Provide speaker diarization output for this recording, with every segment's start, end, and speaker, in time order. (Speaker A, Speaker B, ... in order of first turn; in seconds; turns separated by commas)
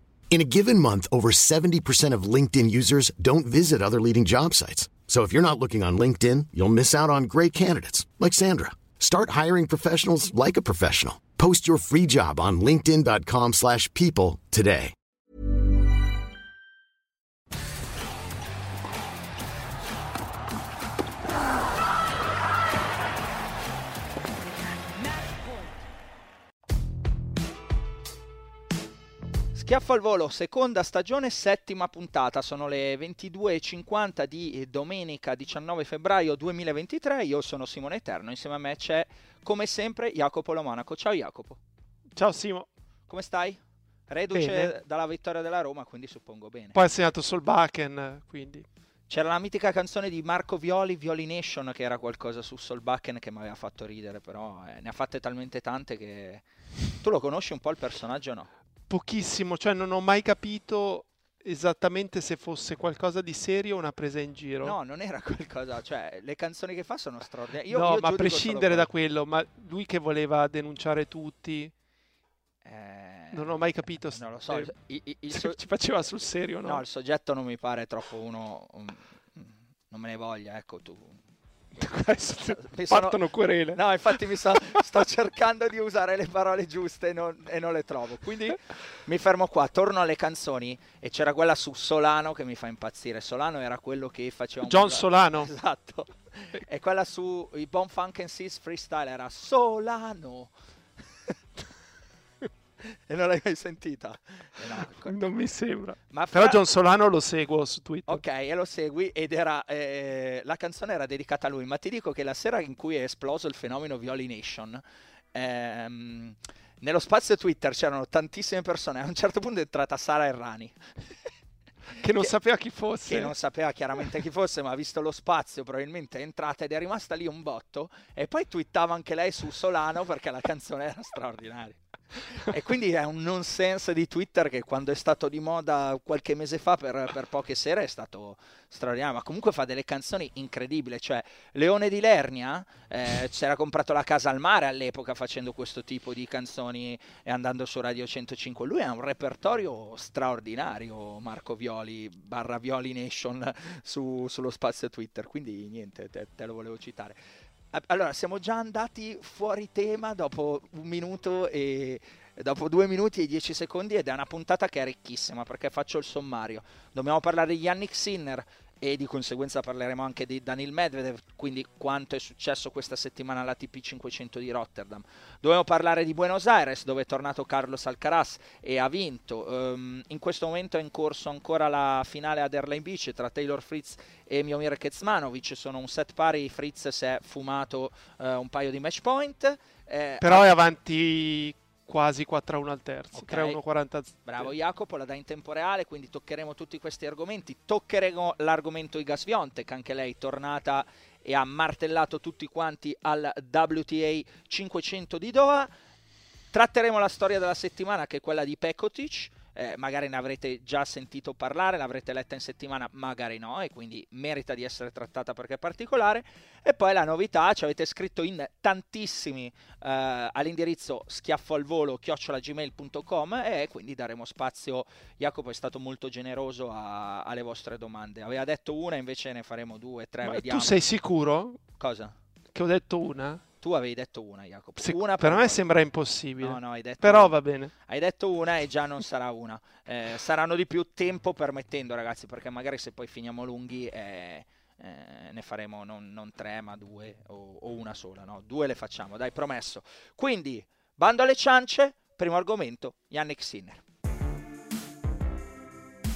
Speaker A: 0.3-14.9, Speaker B: 29.5-41.6, Speaker C: 42.1-42.7, Speaker B: 43.1-46.8, Speaker C: 44.3-44.7, Speaker C: 46.7-48.6, Speaker B: 49.1-58.5, Speaker C: 58.9-64.8, Speaker B: 64.6-68.9, Speaker C: 67.7-71.7, Speaker B: 72.6-75.7, Speaker C: 73.3-74.8, Speaker C: 75.3-76.8, Speaker B: 76.7-81.2, Speaker C: 81.8-84.2, Speaker B: 82.5-100.5, Speaker C: 94.7-95.5, Speaker B: 102.8-105.2, Speaker C: 104.8-108.2, Speaker B: 106.1-106.6, Speaker B: 108.1-114.8, Speaker B: 115.3-121.1, Speaker C: 122.0-123.3, Speaker B: 123.1-157.2, Speaker B: 157.7-190.5, Speaker C: 190.2-194.5, Speaker B: 193.1-193.6, Speaker B: 194.2-205.7, Speaker B: 206.5-230.8, Speaker C: 230.2-231.6, Speaker B: 231.8-232.2, Speaker C: 232.5-233.4, Speaker B: 233.6-235.7, Speaker C: 234.8-237.7, Speaker B: 236.4-253.8